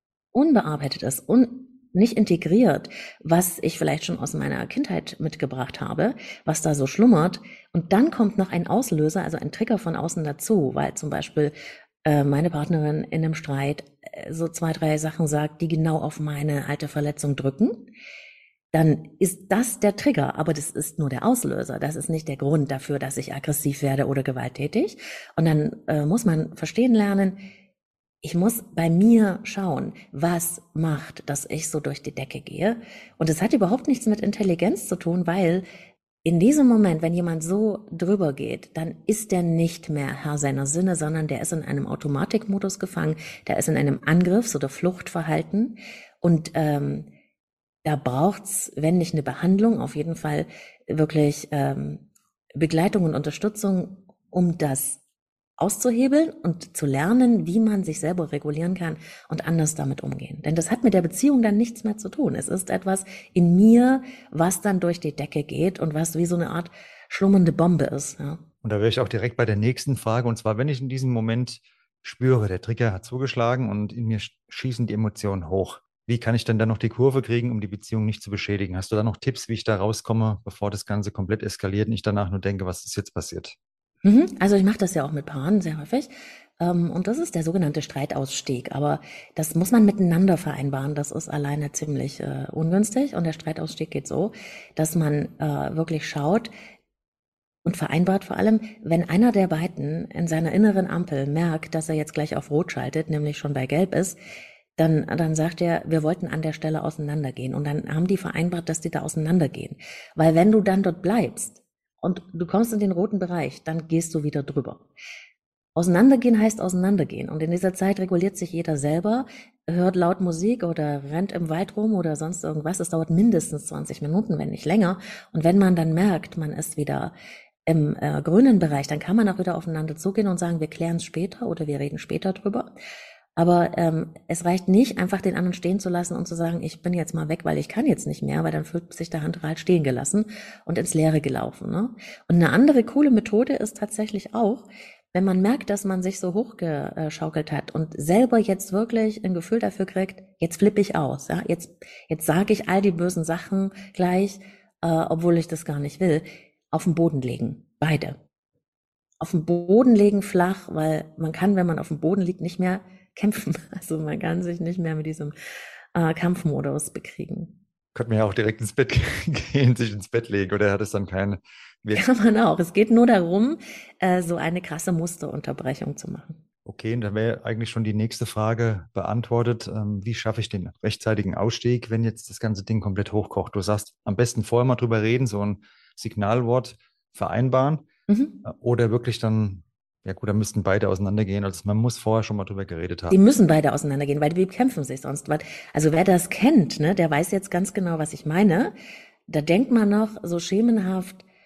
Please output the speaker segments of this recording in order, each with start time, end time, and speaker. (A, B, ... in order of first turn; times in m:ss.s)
0:00.3-0:11.5 A
0:12.0-0:17.9 A
0:18.7-0:27.4 A
0:28.2-0:35.6 A
0:36.2-0:47.1 A
0:47.8-0:52.0 A
0:52.6-0:55.0 A
0:55.6-1:08.4 A
1:08.6-1:23.5 B
1:24.0-1:36.5 A
1:37.6-1:44.2 A
1:44.8-1:54.9 A
1:55.8-2:07.1 A
2:07.6-2:12.7 A
2:13.4-2:38.2 A
2:39.2-2:45.3 A
2:45.9-2:47.6 A
2:47.9-2:52.0 B
2:51.9-2:56.4 A
2:56.6-3:07.9 B
3:08.1-3:08.4 A
3:08.4-3:13.2 B
3:13.1-3:18.7 A
3:19.3-3:21.2 A